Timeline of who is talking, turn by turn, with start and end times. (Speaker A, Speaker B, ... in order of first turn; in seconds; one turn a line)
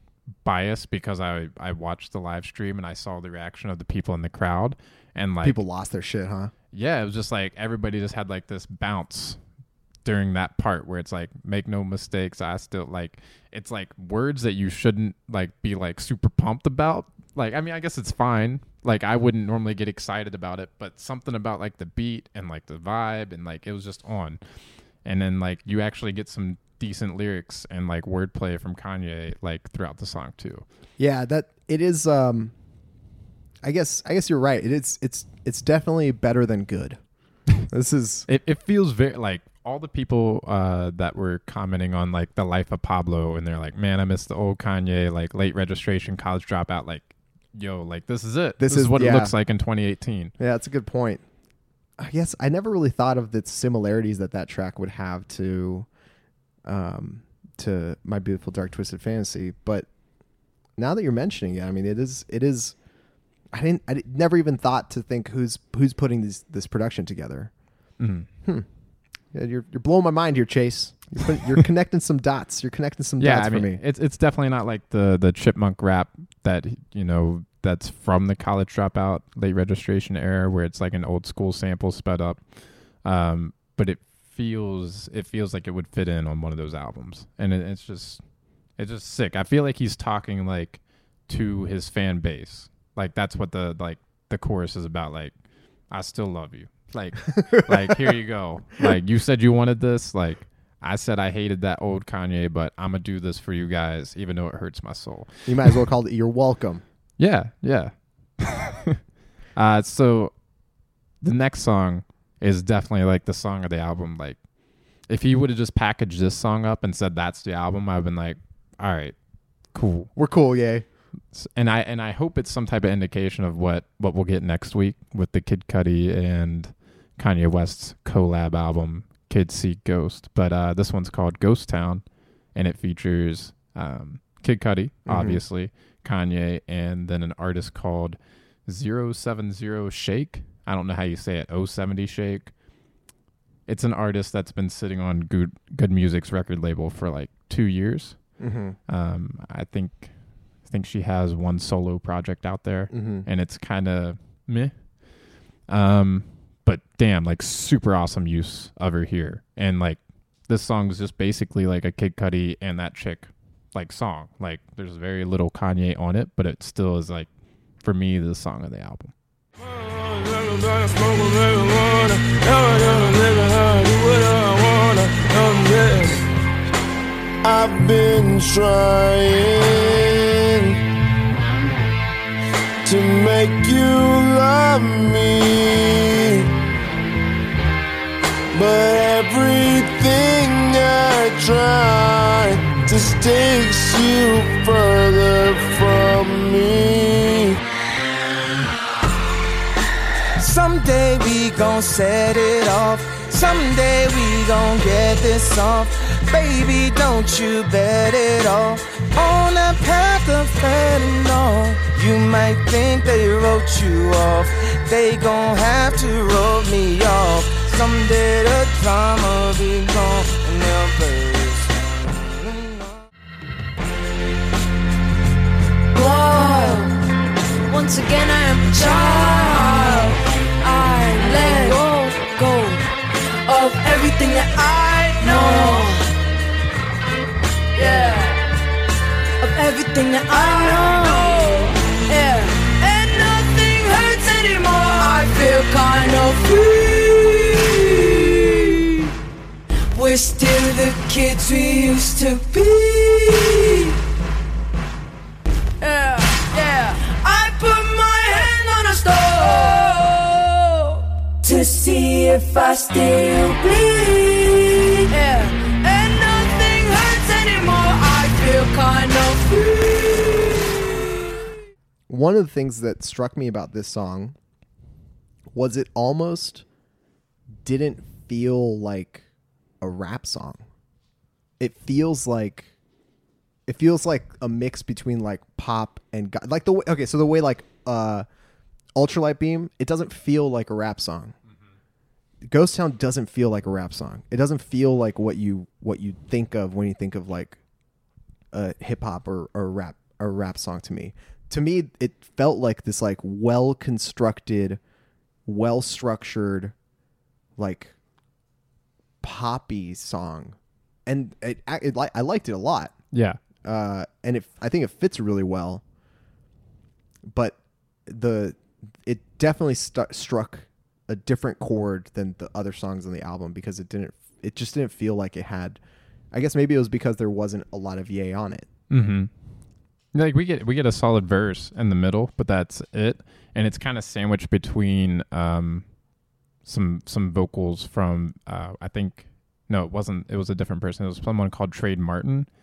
Speaker A: 0.4-5.6
Speaker B: 5.4-6.5
Speaker A: 6.7-9.4
Speaker A: 10.1-24.4
Speaker A: 25.0-30.6
Speaker B: 31.0-32.5
Speaker B: 33.6-37.0
Speaker B: 37.6-38.3
Speaker A: 38.3-50.3
Speaker B: 48.6-49.4
Speaker B: 50.4-51.2
Speaker B: 52.0-55.9
Speaker B: 56.6-59.9
Speaker B: 60.8-62.8
Speaker B: 63.5-67.5
Speaker A: 68.0-68.3
Speaker B: 69.3-73.8
Speaker A: 73.2-82.4
Speaker A: 83.0-88.2
Speaker A: 88.8-95.3
Speaker A: 95.9-105.8
Speaker B: 97.4-98.1
Speaker B: 105.5-106.8
Speaker A: 107.2-109.0
Speaker A: 109.5-110.3
Speaker A: 111.2-114.4
Speaker A: 115.1-119.2
Speaker A: 119.7-120.1
Speaker B: 120.2-120.9
Speaker A: 121.3-142.5
Speaker B: 135.1-135.4
Speaker A: 143.7-155.0
Speaker B: 148.4-148.8
Speaker B: 152.9-153.3
Speaker A: 155.7-167.3
Speaker A: 167.8-169.1
Speaker C: 169.6-176.2
Speaker C: 177.4-180.8
Speaker C: 182.8-186.5
Speaker C: 188.5-197.6
Speaker D: 200.4-223.0
Speaker E: 225.9-226.9
Speaker E: 227.7-232.8
Speaker E: 233.4-236.1
Speaker E: 237.8-238.4
Speaker E: 239.4-249.1
Speaker E: 249.9-254.0
Speaker E: 255.8-270.9
Speaker B: 272.1-274.4
Speaker B: 275.5-276.6
Speaker B: 277.6-279.2
Speaker B: 279.8-280.6
Speaker B: 281.6-282.7
Speaker B: 283.7-288.3
Speaker B: 288.9-291.4
Speaker B: 292.4-297.6
Speaker B: 298.5-304.8
Speaker B: 305.5-306.8
Speaker B: 307.6-307.9
Speaker B: 309.2-312.9
Speaker A: 313.1-313.4
Speaker B: 313.6-315.8
Speaker B: 317.3-325.8
Speaker B: 326.3-328.7
Speaker A: 328.9-329.3
Speaker A: 330.1-335.9
Speaker A: 336.6-342.5